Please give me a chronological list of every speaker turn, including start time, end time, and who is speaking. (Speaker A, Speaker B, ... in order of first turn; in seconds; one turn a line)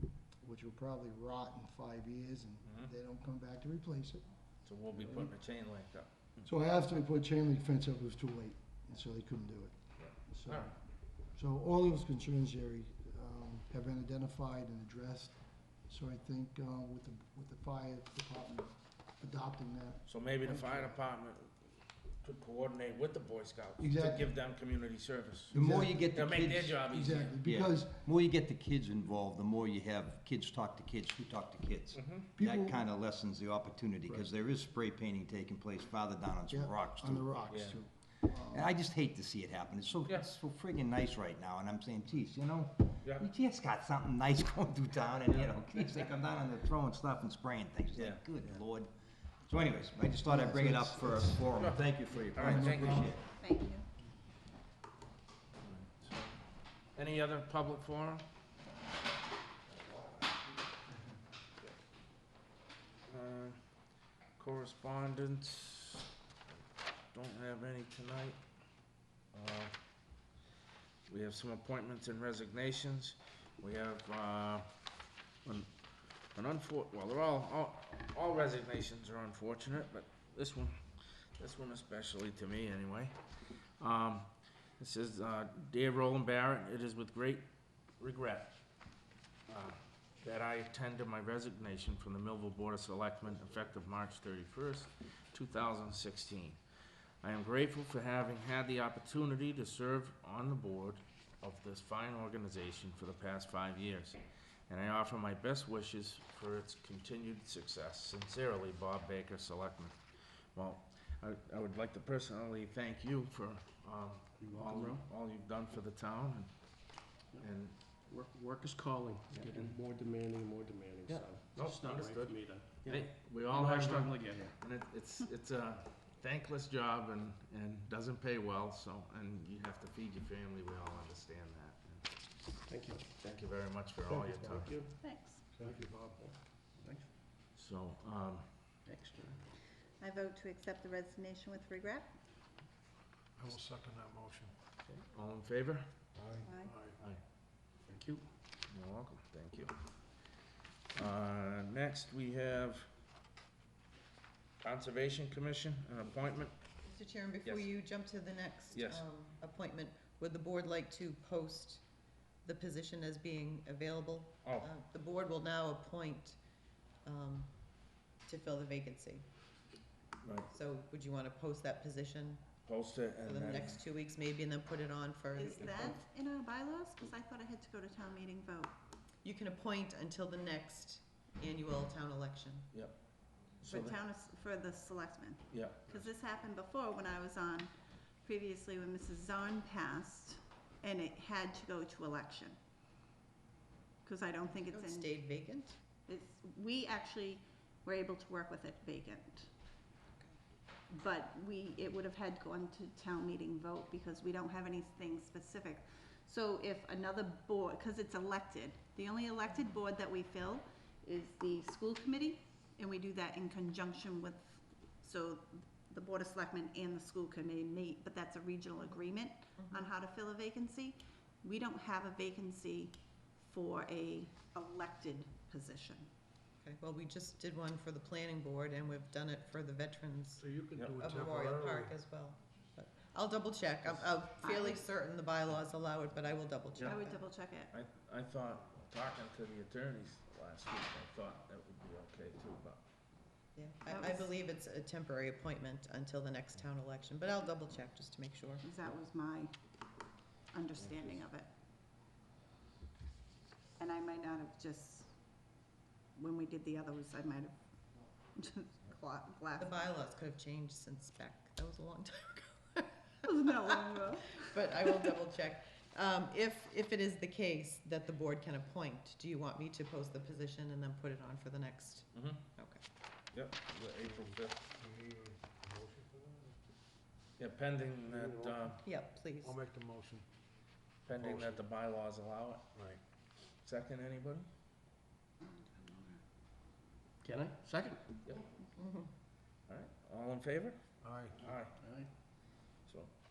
Speaker A: 0.4-4.2
Speaker B: 2.6-2.9
Speaker B: 4.6-6.5
Speaker A: 5.0-5.3
Speaker A: 6.4-9.7
Speaker B: 10.0-10.7
Speaker A: 10.2-10.7
Speaker A: 11.3-15.4
Speaker A: 15.9-21.0
Speaker B: 20.1-21.5
Speaker B: 22.2-25.6
Speaker A: 23.8-24.3
Speaker A: 25.5-26.2
Speaker C: 25.5-26.8
Speaker B: 26.1-27.4
Speaker A: 26.8-28.0
Speaker C: 27.4-37.3
Speaker B: 31.9-32.3
Speaker A: 32.4-32.8
Speaker A: 36.5-38.7
Speaker B: 37.5-37.8
Speaker C: 38.5-48.9
Speaker B: 47.9-48.2
Speaker C: 49.5-53.2
Speaker A: 50.2-51.8
Speaker B: 51.5-51.8
Speaker A: 52.3-53.2
Speaker B: 52.3-53.2
Speaker D: 53.4-53.9
Speaker B: 55.6-56.3
Speaker B: 56.9-58.2
Speaker B: 63.1-63.6
Speaker B: 64.4-66.0
Speaker B: 67.1-68.4
Speaker B: 69.3-69.8
Speaker B: 71.1-74.7
Speaker B: 76.3-80.8
Speaker B: 81.4-83.1
Speaker B: 83.8-87.4
Speaker B: 88.0-88.5
Speaker B: 89.5-96.6
Speaker B: 97.2-109.9
Speaker B: 110.5-116.5
Speaker E: 114.4-115.0
Speaker B: 117.4-117.8
Speaker E: 118.1-124.5
Speaker B: 119.3-119.7
Speaker B: 121.1-132.1
Speaker E: 132.7-133.0
Speaker B: 133.2-134.8
Speaker E: 134.1-134.9
Speaker D: 135.0-135.4
Speaker F: 135.5-136.3
Speaker E: 135.6-137.1
Speaker B: 137.6-138.4
Speaker E: 138.8-139.3
Speaker D: 140.0-142.1
Speaker F: 143.4-144.5
Speaker B: 144.9-145.9
Speaker F: 146.2-147.0
Speaker D: 146.4-146.8
Speaker B: 146.9-147.2
Speaker E: 147.9-148.2
Speaker B: 148.7-149.7
Speaker B: 150.9-152.8
Speaker B: 154.6-156.5
Speaker G: 156.8-161.8
Speaker B: 157.4-157.7
Speaker B: 158.7-159.0
Speaker G: 162.4-166.4
Speaker G: 167.0-167.5
Speaker G: 168.2-169.2
Speaker B: 170.2-170.5
Speaker G: 170.5-172.4
Speaker B: 172.6-173.8
Speaker G: 173.2-176.0
Speaker D: 175.3-178.7
Speaker B: 175.7-175.9
Speaker G: 179.2-182.7
Speaker B: 183.6-183.9
Speaker G: 183.7-183.9
Speaker D: 183.8-187.7
Speaker B: 185.5-185.9
Speaker D: 188.2-192.6
Speaker D: 194.0-195.1
Speaker G: 194.6-195.8
Speaker D: 196.1-199.5
Speaker D: 200.9-222.9
Speaker G: 219.6-219.9
Speaker D: 223.4-226.1
Speaker G: 226.6-230.4
Speaker F: 230.4-231.9
Speaker B: 230.8-231.1
Speaker G: 231.0-237.2
Speaker D: 234.3-234.8
Speaker D: 236.8-237.7
Speaker B: 237.7-242.8
Speaker G: 243.5-248.6
Speaker D: 243.8-244.3
Speaker D: 248.6-249.5
Speaker D: 250.5-251.5
Speaker B: 250.8-251.2
Speaker D: 253.8-255.1
Speaker D: 256.2-257.5
Speaker D: 258.4-260.0
Speaker G: 259.6-272.8
Speaker D: 263.2-265.1
Speaker B: 272.1-272.4
Speaker B: 273.3-274.6
Speaker F: 274.0-276.6
Speaker B: 277.4-278.8
Speaker F: 278.0-278.8
Speaker G: 278.8-279.5
Speaker F: 279.4-280.2
Speaker B: 281.1-282.7
Speaker F: 281.1-281.6
Speaker F: 282.7-283.0
Speaker B: 283.6-284.5
Speaker E: 287.2-288.0
Speaker G: 288.8-289.1
Speaker B: 289.7-290.8
Speaker F: 291.0-291.5
Speaker B: 291.4-291.7
Speaker E: 291.8-292.1